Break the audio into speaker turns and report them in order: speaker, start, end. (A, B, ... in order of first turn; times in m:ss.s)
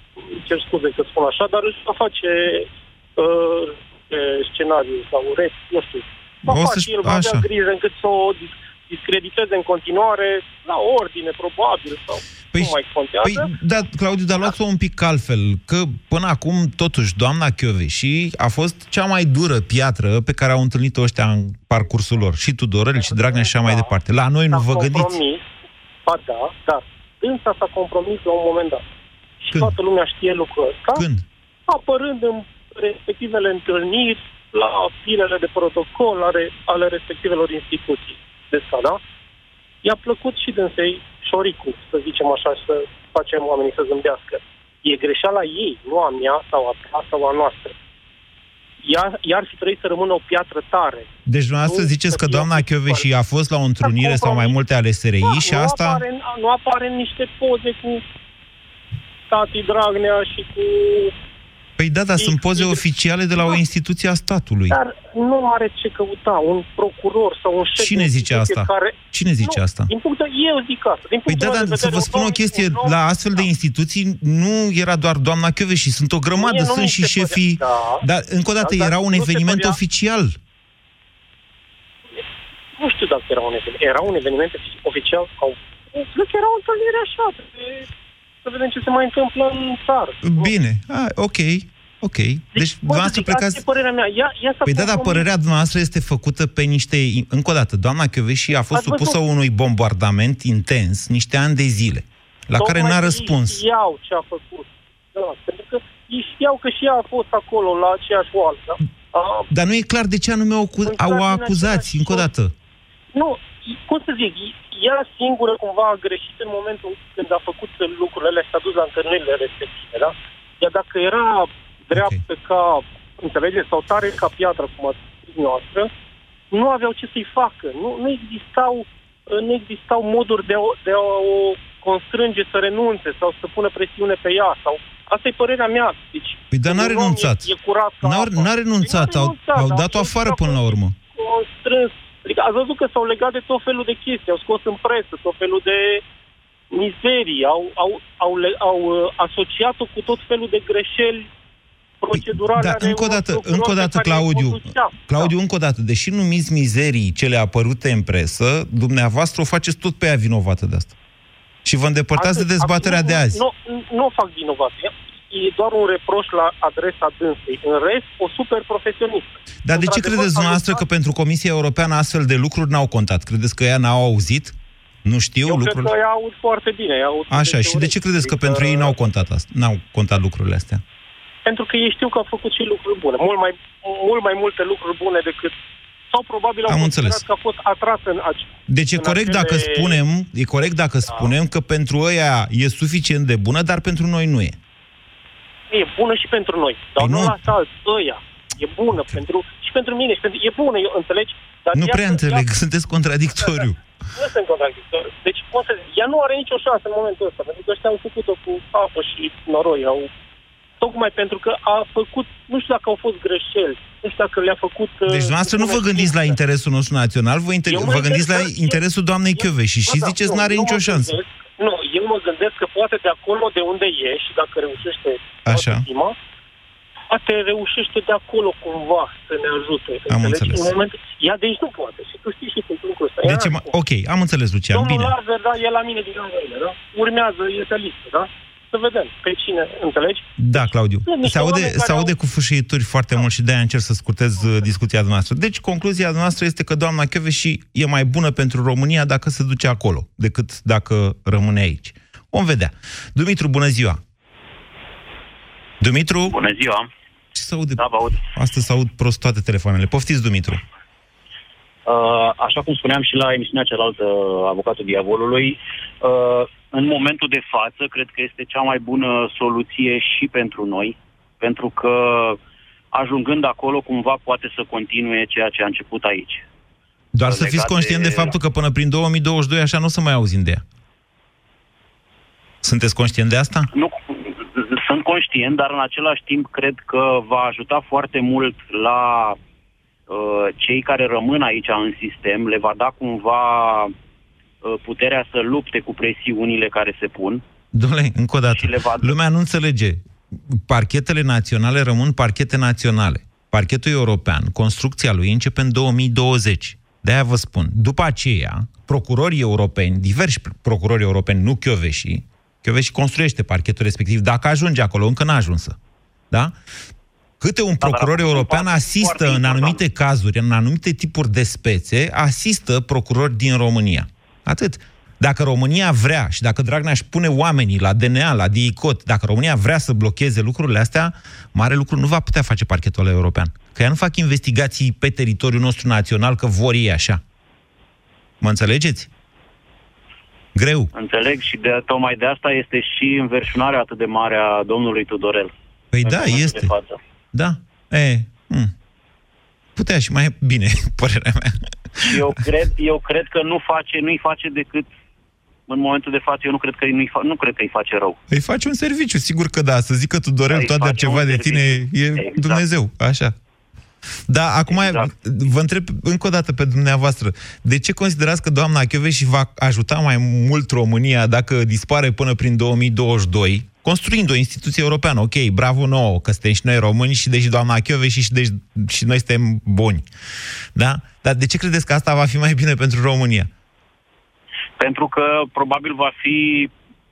0:00.3-0:13.5 A
0:06.5-0:07.5 B
0:12.5-0:25.2 B
0:23.0-0:23.9 A
0:24.5-0:25.4 A
0:26.0-0:28.8 A
0:29.4-0:31.0 A
0:30.9-0:31.2 B
0:31.7-0:39.0 A
0:39.8-0:47.8 A
0:48.8-0:51.1 A
0:51.3-0:56.0 B
0:51.6-0:53.1 A
0:53.8-0:54.6 A
0:55.2-0:58.0 A
0:59.3-1:01.1 A
1:01.8-1:04.8 B
1:02.2-1:02.8 A
1:04.7-1:13.4 A
1:07.8-1:09.9 B
1:11.3-1:20.4 B
1:16.4-1:18.0 A
1:18.6-1:19.8 A
1:22.8-1:27.9 A
1:28.4-1:30.5 A
1:30.2-1:33.6 B
1:32.5-1:35.2 A
1:34.6-1:43.6 B
1:38.7-1:39.2 A
1:42.6-1:49.5 A
1:49.5-1:52.5 B
1:50.8-1:52.3 A
1:53.1-2:05.9 A
2:01.9-2:02.2 B
2:06.5-2:26.0 A
2:16.5-2:21.0 B
2:26.7-2:31.3 A
2:32.0-2:35.3 A
2:32.1-2:40.9 B
2:41.6-2:43.4 B
2:42.2-2:50.8 A
2:49.6-2:56.0 B
2:55.4-2:58.9 A
2:57.3-3:00.8 B
3:01.4-3:05.5 A
3:06.1-3:10.0 A
3:06.7-3:07.2 B
3:08.7-3:14.6 B
3:15.7-3:22.4 A
3:17.0-3:17.5 B
3:18.9-3:19.2 B
3:21.7-3:23.8 B
3:24.1-3:30.1 A
3:30.8-3:36.4 A
3:35.1-3:41.2 B
3:37.7-3:38.8 A
3:39.3-3:46.2 A
3:45.4-3:45.8 B
3:47.1-3:53.7 A
3:50.1-3:50.7 B
3:53.2-3:55.1 B
3:54.7-4:02.1 A
4:00.4-4:14.0 B
4:15.8-4:16.4 B
4:16.2-4:16.9 C
4:17.3-4:20.6 B
4:17.8-4:18.2 C
4:21.8-4:32.4 C
4:32.9-4:36.4 C
4:37.1-4:40.6 B
4:37.2-4:38.3 C
4:42.6-4:43.7 B
4:43.7-4:49.4 C
4:50.1-4:53.9 C
4:54.6-4:57.4 C
4:57.7-5:15.8 B
4:58.5-4:59.2 C
5:17.4-5:37.2 B
5:17.8-5:19.8 C
5:38.4-5:39.1 B
5:40.5-5:40.9 B
5:40.9-5:47.0 C
5:45.9-5:46.7 B
5:47.3-5:48.7 B
5:49.8-5:52.2 B
5:52.0-5:54.9 C
5:55.7-5:58.2 C
5:58.3-6:03.3 B
6:00.5-6:02.6 C
6:04.3-6:20.0 B
6:04.7-6:05.1 C
6:20.7-6:23.5 B
6:24.8-6:26.7 C